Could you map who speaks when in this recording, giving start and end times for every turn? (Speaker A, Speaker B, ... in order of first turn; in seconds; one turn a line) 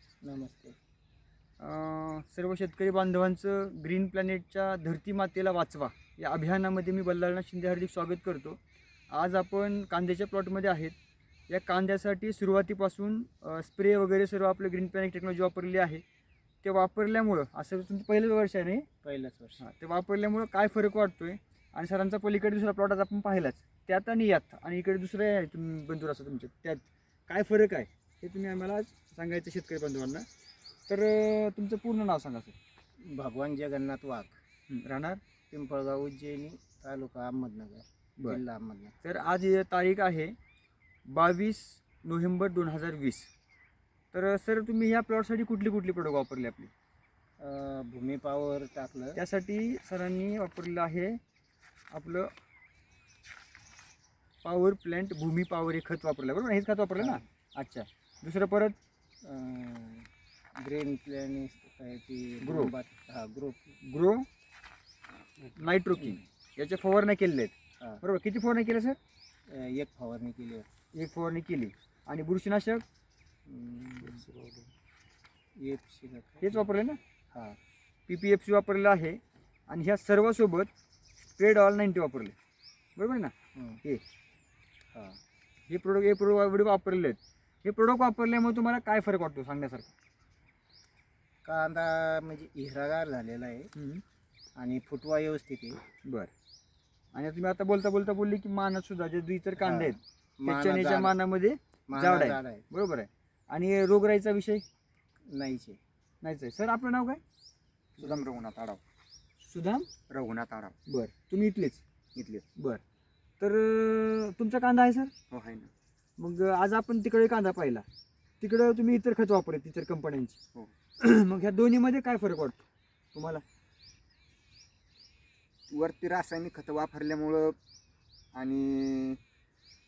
Speaker A: 0.2-0.8
Speaker B: 1.6-8.6
Speaker B: 9.1-11.0
Speaker B: 11.5-16.0
Speaker B: 16.6-18.9
Speaker A: 19.0-19.6
Speaker B: 19.6-30.2
Speaker B: 30.9-32.5
Speaker A: 33.1-34.4
Speaker B: 34.7-35.2
Speaker A: 35.5-39.0
Speaker B: 39.0-40.3
Speaker B: 41.1-43.3
Speaker B: 44.1-46.7
Speaker A: 47.4-49.2
Speaker B: 49.1-51.2
Speaker B: 51.9-52.3
Speaker B: 54.4-58.8
Speaker A: 57.0-57.2
Speaker A: 59.2-60.1
Speaker A: 60.6-63.6
Speaker B: 62.4-62.7
Speaker B: 63.8-64.2
Speaker B: 65.5-69.0
Speaker A: 69.5-70.7
Speaker B: 70.9-72.8
Speaker A: 73.5-74.2
Speaker B: 74.0-74.7
Speaker A: 75.6-76.6
Speaker B: 76.4-77.0
Speaker B: 78.1-80.7
Speaker B: 81.4-82.3
Speaker B: 83.0-84.0
Speaker A: 83.6-83.8
Speaker B: 85.7-89.9
Speaker A: 91.5-93.7
Speaker B: 93.8-94.0
Speaker A: 94.6-95.8
Speaker B: 96.0-96.3
Speaker B: 97.1-104.6
Speaker A: 99.6-101.2
Speaker A: 101.9-102.6
Speaker A: 105.3-105.8
Speaker B: 106.2-107.2
Speaker C: 108.0-108.8
Speaker B: 109.4-109.9
Speaker C: 110.1-110.8
Speaker B: 110.9-111.8
Speaker C: 112.2-112.5
Speaker B: 113.4-115.1
Speaker C: 115.3-115.7
Speaker B: 116.2-117.8
Speaker B: 118.4-120.4
Speaker B: 121.0-122.6
Speaker B: 123.1-123.4
Speaker C: 125.7-127.6
Speaker C: 128.3-129.2